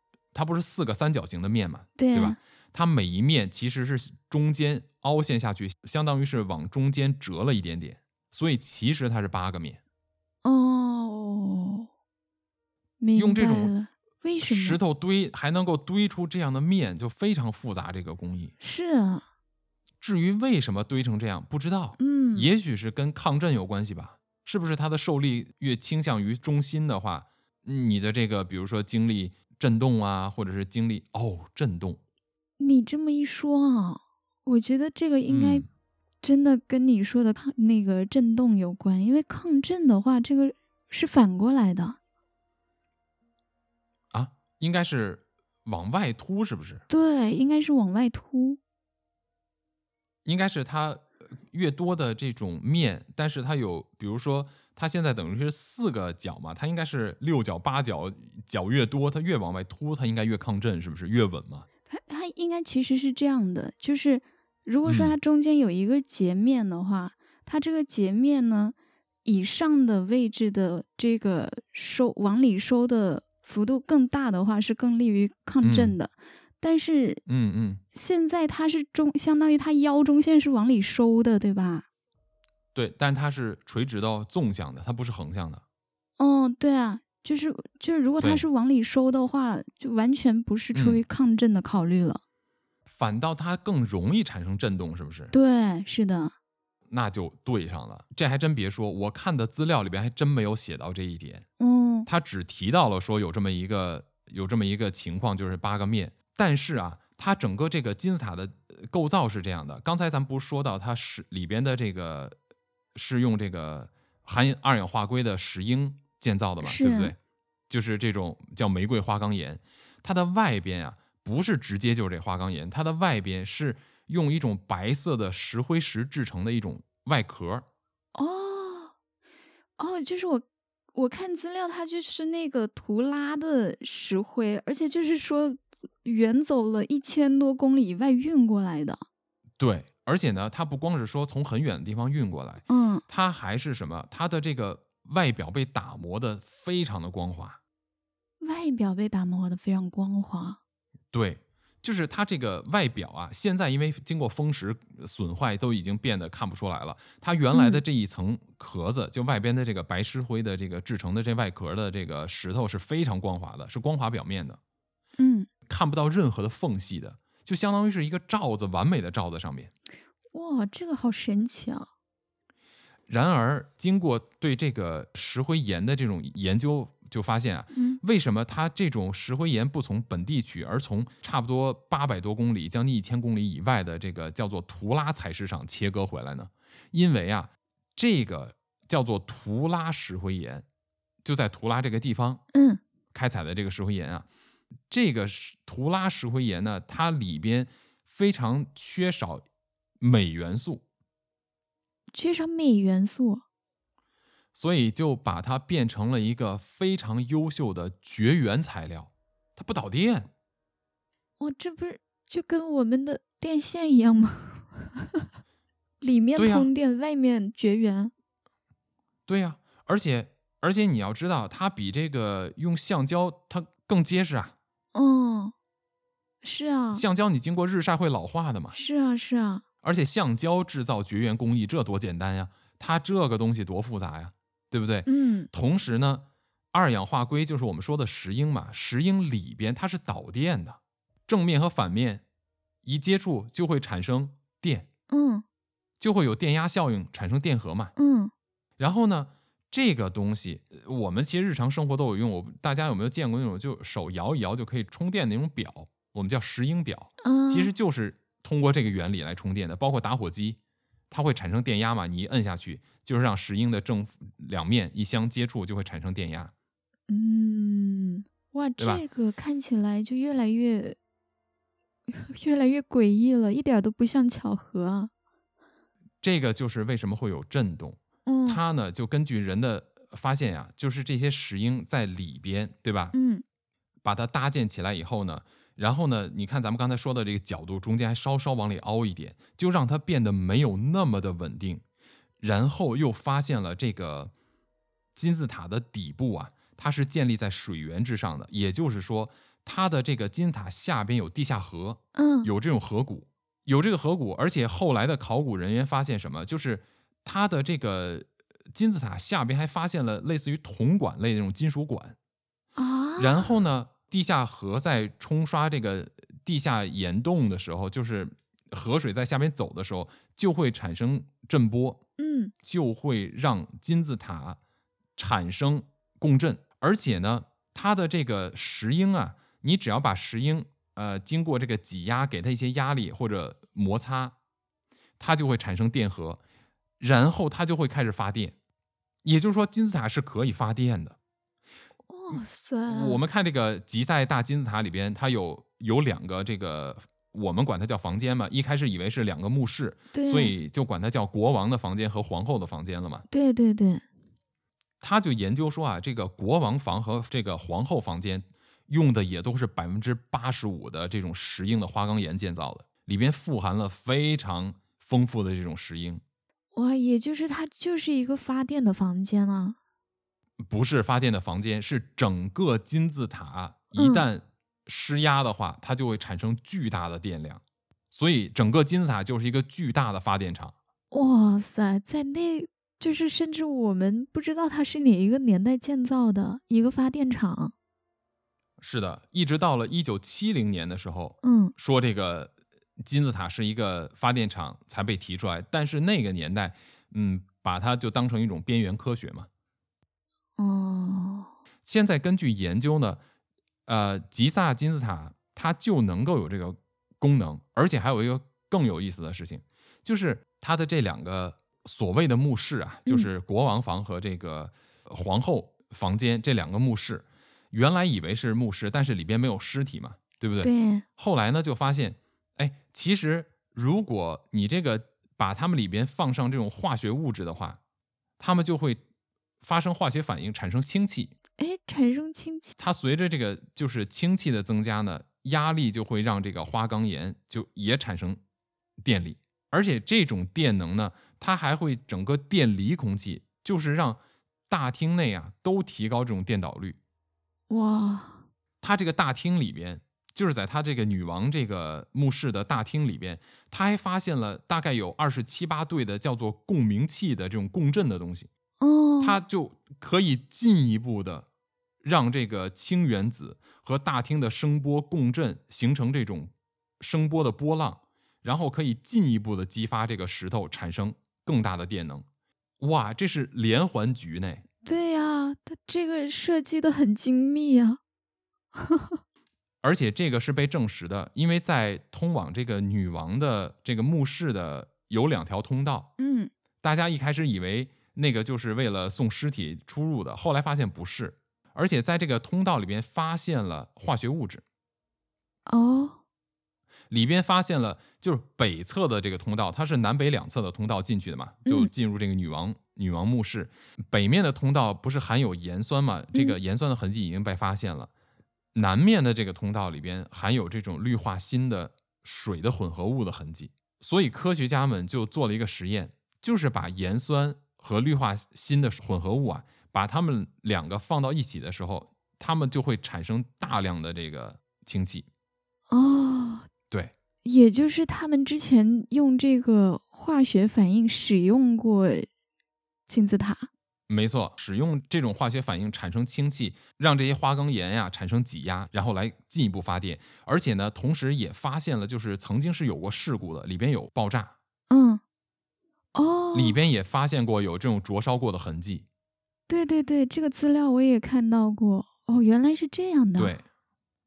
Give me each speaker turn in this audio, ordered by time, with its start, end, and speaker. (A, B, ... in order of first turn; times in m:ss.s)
0:00.3-0:09.8 A
0:02.0-0:02.4 B
0:10.4-0:11.9 B
0:13.0-0:14.8 B
0:13.2-0:13.7 A
0:14.4-0:18.5 A
0:18.6-0:19.2 B
0:20.0-0:32.0 A
0:22.0-0:22.5 B
0:32.6-0:35.6 B
0:35.3-0:35.6 A
0:36.2-0:42.0 B
0:44.1-0:46.8 A
0:46.9-0:48.6 B
0:50.2-1:01.6 A
1:01.9-1:17.2 B
1:04.8-1:05.2 A
1:15.6-1:16.0 A
1:17.2-1:17.8 A
1:17.9-1:21.9 B
1:22.7-1:25.6 A
1:26.2-1:32.2 B
1:30.7-1:31.0 A
1:32.9-1:35.3 A
1:35.3-1:36.3 B
1:36.9-1:41.4 A
1:41.6-1:42.1 B
1:42.0-1:52.4 A
1:52.9-1:57.2 A
1:56.6-1:57.1 B
1:57.7-2:07.6 A
2:08.1-2:08.9 B
2:09.8-2:19.0 B
2:19.6-2:27.6 A
2:22.7-2:23.0 B
2:28.4-2:30.6 B
2:31.1-2:44.6 A
2:37.5-2:37.8 B
2:45.2-2:45.5 B
2:45.7-2:49.7 A
2:50.3-2:51.9 B
2:53.1-3:10.6 A
2:57.7-2:58.0 B
3:11.2-3:12.4 A
3:12.5-3:12.8 B
3:13.1-3:14.2 A
3:14.9-3:19.4 A
3:20.0-3:20.8 A
3:22.1-3:23.4 B
3:24.5-3:30.3 A
3:31.4-3:35.2 B
3:36.0-3:38.1 B
3:36.4-3:36.7 A
3:39.3-3:44.5 A
3:44.9-3:45.5 B
3:46.4-3:47.0 B
3:46.9-3:48.8 A
3:48.7-3:49.6 B
3:49.8-4:02.2 A
3:55.0-3:55.5 B
4:02.8-4:04.9 A
4:05.1-4:05.4 B
4:06.0-4:07.9 A
4:08.0-4:08.3 B
4:08.8-4:20.6 A
4:17.2-4:17.7 B
4:21.1-4:26.5 A
4:27.1-4:31.0 B
4:28.8-4:29.0 A
4:32.1-4:35.1 B
4:36.2-4:43.1 A
4:38.2-4:38.6 B
4:43.1-4:43.4 B
4:44.0-4:51.8 A
4:52.4-4:54.3 A
4:55.1-5:12.2 A
5:02.1-5:02.5 B
5:12.8-5:13.5 B
5:13.2-5:22.0 A
5:22.2-5:22.5 B
5:22.6-5:24.6 A
5:25.2-5:34.3 A
5:35.2-5:36.4 A
5:37.0-5:38.5 A
5:39.2-5:41.2 A
5:42.1-5:43.2 B
5:42.3-5:53.2 A
5:50.1-5:50.5 B
5:53.3-5:54.0 B
5:55.0-6:06.2 A
6:06.7-6:09.8 B
6:10.6-6:20.7 A
6:14.0-6:14.2 B
6:21.1-6:27.7 B
6:28.8-6:39.5 A
6:31.4-6:31.7 B
6:40.6-6:41.5 B
6:41.8-6:43.2 A
6:43.8-7:07.8 A
7:00.6-7:01.0 B
7:08.4-7:09.0 A
7:09.6-7:11.3 A
7:11.6-7:12.7 B
7:12.8-7:18.4 A
7:19.0-7:27.0 A
7:27.7-7:28.4 B
7:28.8-7:38.5 A
7:38.8-7:39.4 B
7:39.2-7:41.4 A
7:42.0-7:52.2 A
7:52.8-7:54.6 A
7:54.8-7:58.0 B
7:58.7-7:59.2 B
7:59.8-8:06.1 A
8:06.2-8:06.5 B
8:06.8-8:14.6 A
8:15.7-8:16.2 B
8:17.1-8:28.1 A
8:21.6-8:21.9 B
8:28.7-8:45.3 A
8:45.9-8:46.7 B
8:47.4-8:52.3 B
8:53.1-8:53.7 B
8:54.1-9:04.5 A
9:04.9-9:05.2 B
9:06.1-9:06.8 B
9:06.5-9:09.0 A
9:09.7-9:13.6 B
9:13.4-9:13.6 A